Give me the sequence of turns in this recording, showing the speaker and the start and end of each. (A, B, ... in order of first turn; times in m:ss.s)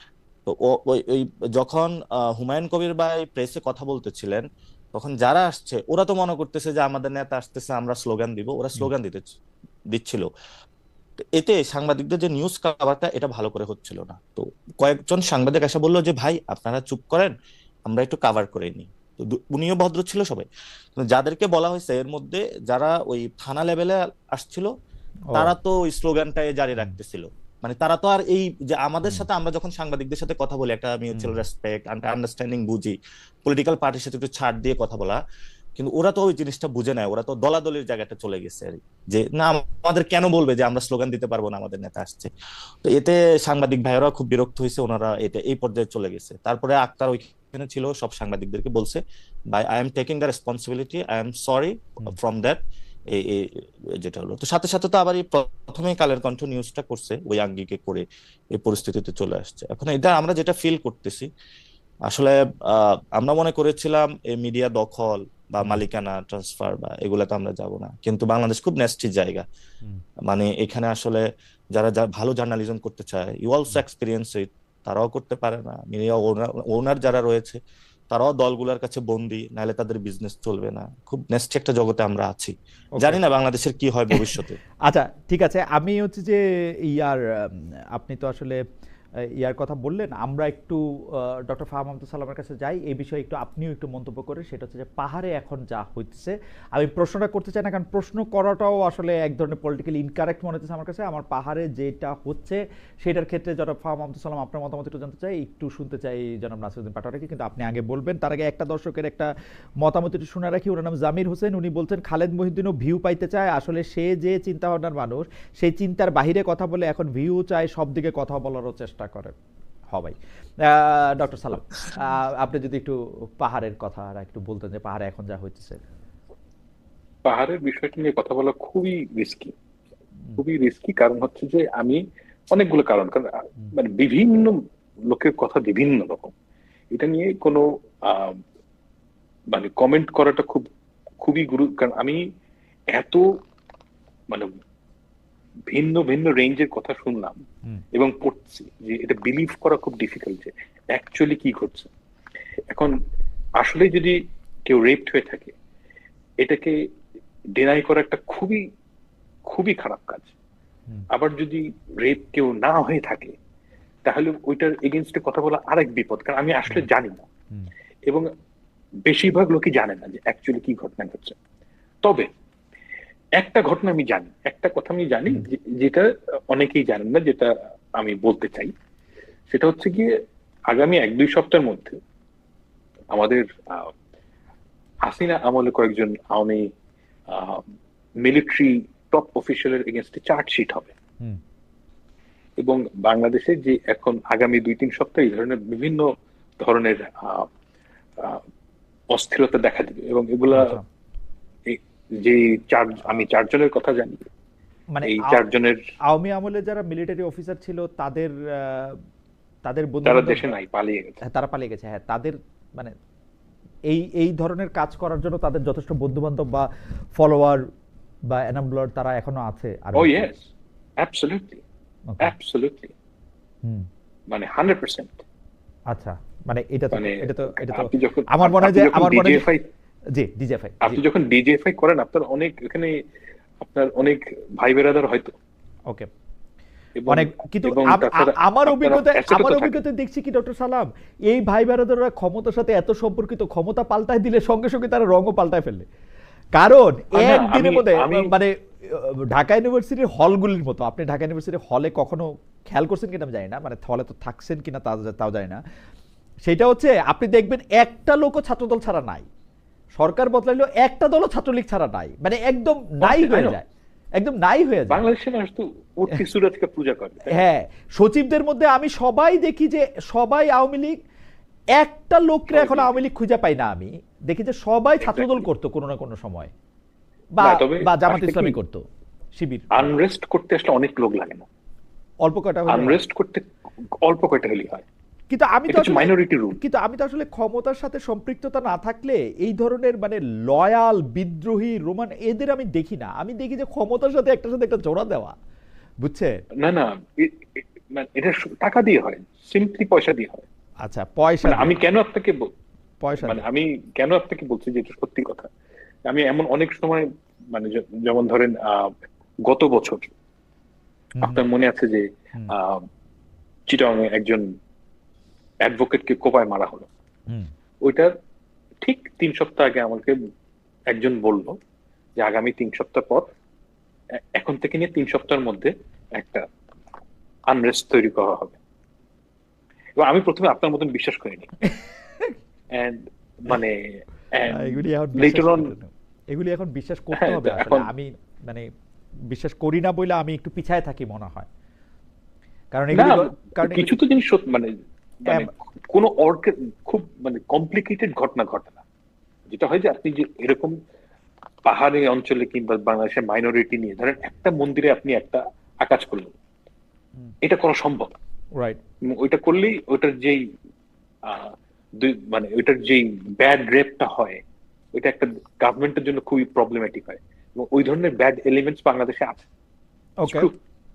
0:00.5-0:04.4 A
0:05.0-0:09.4 A
0:09.9-0:10.3 A
0:11.4-0:17.3 A
0:17.9-0:20.5 A
0:21.0-0:24.7 A
0:25.4-0:35.2 A
0:31.1-0:31.4 B
0:35.8-0:42.3 A
0:42.8-0:49.0 A
0:49.5-0:52.6 A
0:53.1-0:53.5 A
0:54.0-1:01.3 A
1:02.1-1:09.4 A
1:10.3-1:17.6 A
1:18.1-1:24.6 A
1:24.1-1:26.4 B
1:26.9-1:28.6 B
1:29.4-1:30.8 B
1:31.5-1:49.3 B
1:49.8-1:59.3 B
1:59.9-2:05.8 B
2:07.2-2:09.5 C
2:10.4-2:16.3 C
2:16.9-2:18.4 C
2:19.5-2:20.7 C
2:21.2-2:22.2 C
2:22.9-2:23.2 C
2:24.3-2:24.6 C
2:25.7-2:27.4 C
2:27.9-2:31.9 C
2:32.7-2:32.9 C
2:33.6-2:35.5 C
2:36.4-2:36.8 C
2:37.6-2:38.6 C
2:39.5-2:40.3 C
2:41.1-2:43.4 C
2:44.0-2:47.3 C
2:49.0-2:51.4 C
2:52.0-2:52.3 C
2:53.4-2:58.7 C
2:59.5-3:00.1 C
3:00.7-3:02.0 C
3:03.1-3:03.9 C
3:05.0-3:06.7 C
3:07.3-3:07.7 C
3:08.2-3:10.9 C
3:12.6-3:17.5 C
3:19.1-3:20.8 C
3:20.5-3:20.8 B
3:21.7-3:24.2 C
3:25.0-3:25.4 B
3:25.0-3:25.8 C
3:26.1-3:28.9 B
3:29.7-3:30.5 B
3:30.0-3:31.2 C
3:31.3-3:32.9 B
3:33.9-3:37.6 B
3:38.3-3:40.3 B
3:40.0-3:40.4 C
3:41.0-3:41.6 C
3:42.2-3:42.9 C
3:44.3-3:45.2 C
3:45.9-3:49.5 B
3:46.9-3:49.6 C
3:50.2-3:51.0 B
3:50.8-3:53.0 C
3:53.6-3:55.4 C
3:57.0-3:59.8 C
3:57.1-4:05.9 B
4:06.6-4:15.6 B
4:07.1-4:08.3 C
4:16.5-4:19.2 B
4:20.0-4:23.6 B
4:23.0-4:23.6 C
4:24.2-4:25.0 B
4:24.9-4:27.4 C
4:27.3-4:31.0 B
4:31.8-4:36.5 B
4:32.5-4:33.0 C
4:35.0-4:35.5 C
4:37.4-4:38.8 B
4:37.4-4:38.6 C
4:39.4-4:39.9 B
4:39.7-4:41.5 C
4:42.2-4:43.0 B
4:42.7-4:43.5 C
4:44.0-4:44.8 C
4:45.3-4:55.4 B
4:45.7-4:46.6 C
4:56.0-4:56.3 B
4:56.6-5:00.4 C
5:00.8-5:01.7 B
5:01.4-5:02.5 C
5:03.0-5:03.4 B
5:03.2-5:05.5 C
5:06.1-5:08.9 C
5:09.4-5:10.1 C
5:11.2-5:11.4 B
5:11.2-5:12.8 C
5:13.7-5:14.4 C
5:15.6-5:16.9 C
5:17.8-5:18.1 C
5:18.8-5:20.2 C
5:20.9-5:21.6 C
5:22.2-5:23.3 C
5:24.4-5:26.4 C
5:27.5-5:28.6 C
5:30.0-5:31.6 C
5:31.7-5:32.3 B
5:32.7-5:35.7 C
5:34.5-5:38.7 B
5:37.2-5:37.9 C
5:39.3-5:41.5 B
5:42.7-5:43.9 B
5:42.9-5:48.8 C
5:49.5-5:50.7 C
5:51.7-5:56.3 C
5:57.4-5:58.1 C
5:59.1-6:00.4 C
6:01.2-6:04.4 C
6:05.0-6:09.5 C
6:10.2-6:10.5 B
6:10.2-6:10.6 C